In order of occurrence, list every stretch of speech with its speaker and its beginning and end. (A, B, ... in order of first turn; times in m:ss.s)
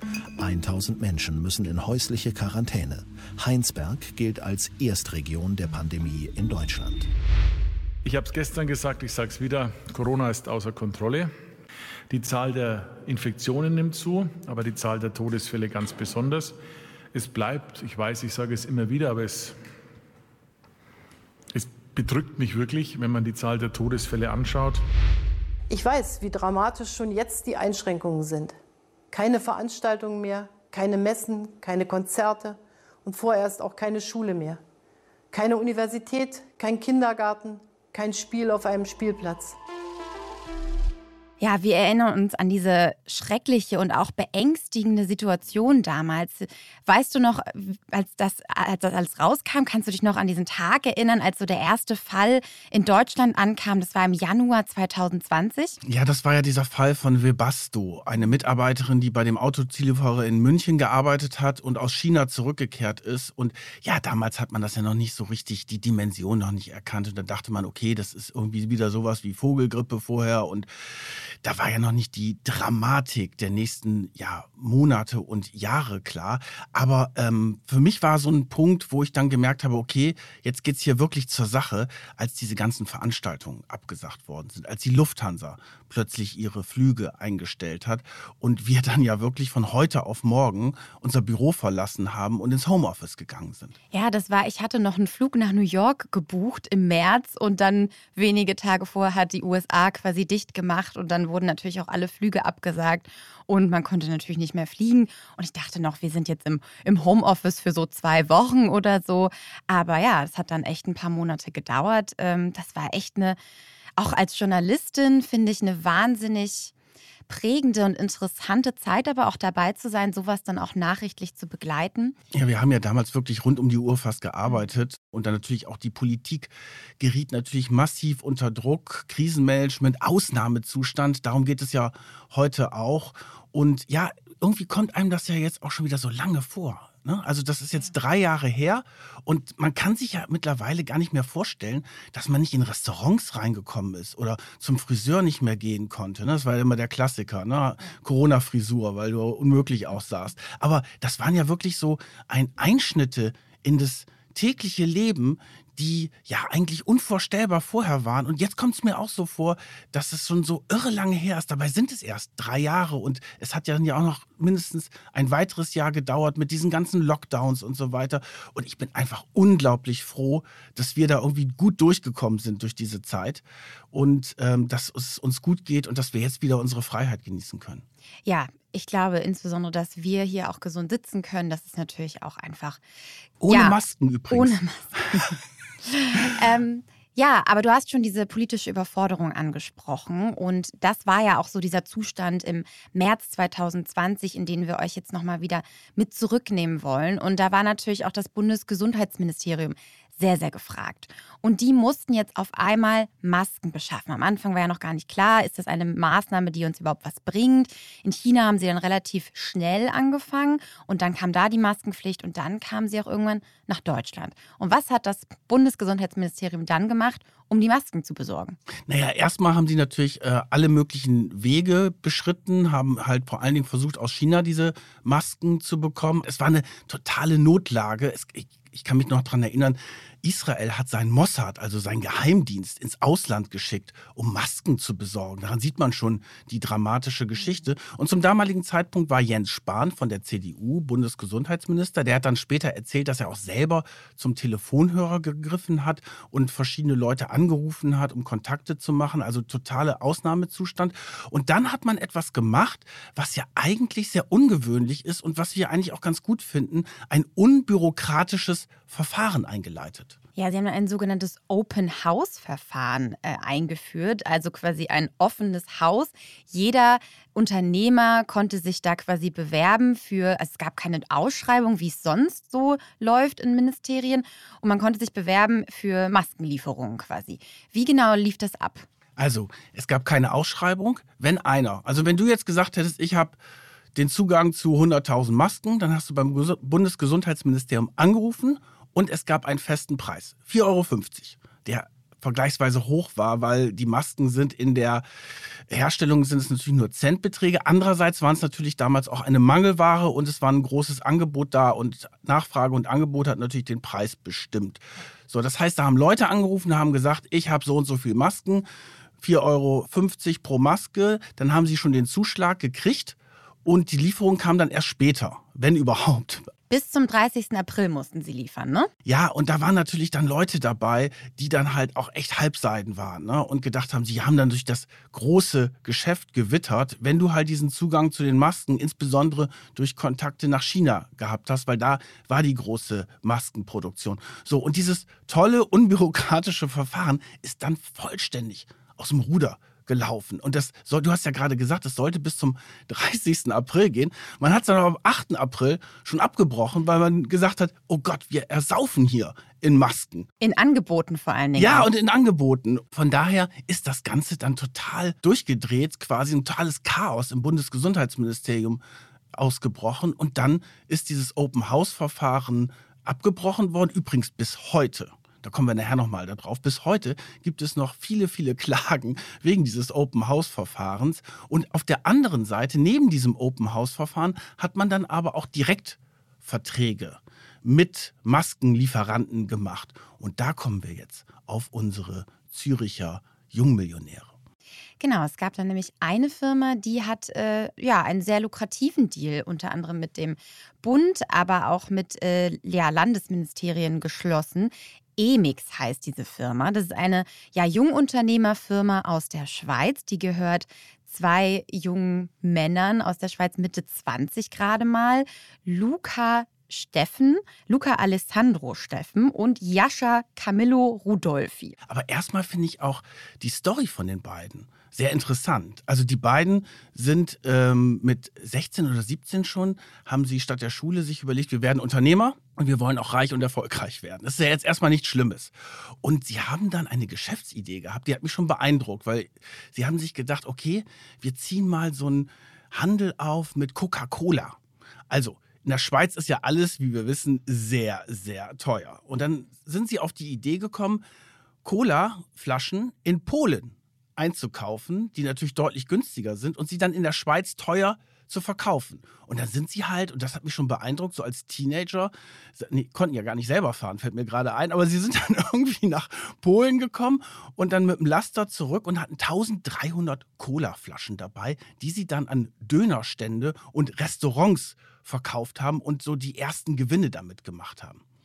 0:00.4-0:07.1 A
0:08.0-0:11.3 B
0:12.1-0:16.6 B
0:17.1-0:19.6 B
0:21.5-0:24.8 B
0:25.7-0:28.6 C
0:29.1-0:34.6 C
0:35.3-0:39.6 C
0:41.4-0:55.8 D
0:55.8-1:33.8 E
1:33.9-1:53.4 D
1:54.0-1:56.7 D
1:57.3-2:02.2 D
2:02.3-2:57.8 E
2:58.3-3:02.8 D
3:03.4-3:05.3 E
3:03.5-3:03.8 D
3:04.3-3:04.9 D
3:05.9-3:38.6 D
3:38.9-4:20.2 E
4:20.4-4:38.9 D
4:39.2-4:43.4 E
4:44.0-4:55.0 E
4:55.7-5:08.7 E
5:09.2-5:16.5 E
5:16.7-5:18.9 D
5:19.1-5:50.3 E
5:50.4-5:51.9 D
5:51.6-5:58.8 E
5:59.3-6:24.3 E
6:25.0-6:51.8 D
6:51.9-7:14.6 E
7:15.1-7:21.0 E
7:21.6-7:48.0 E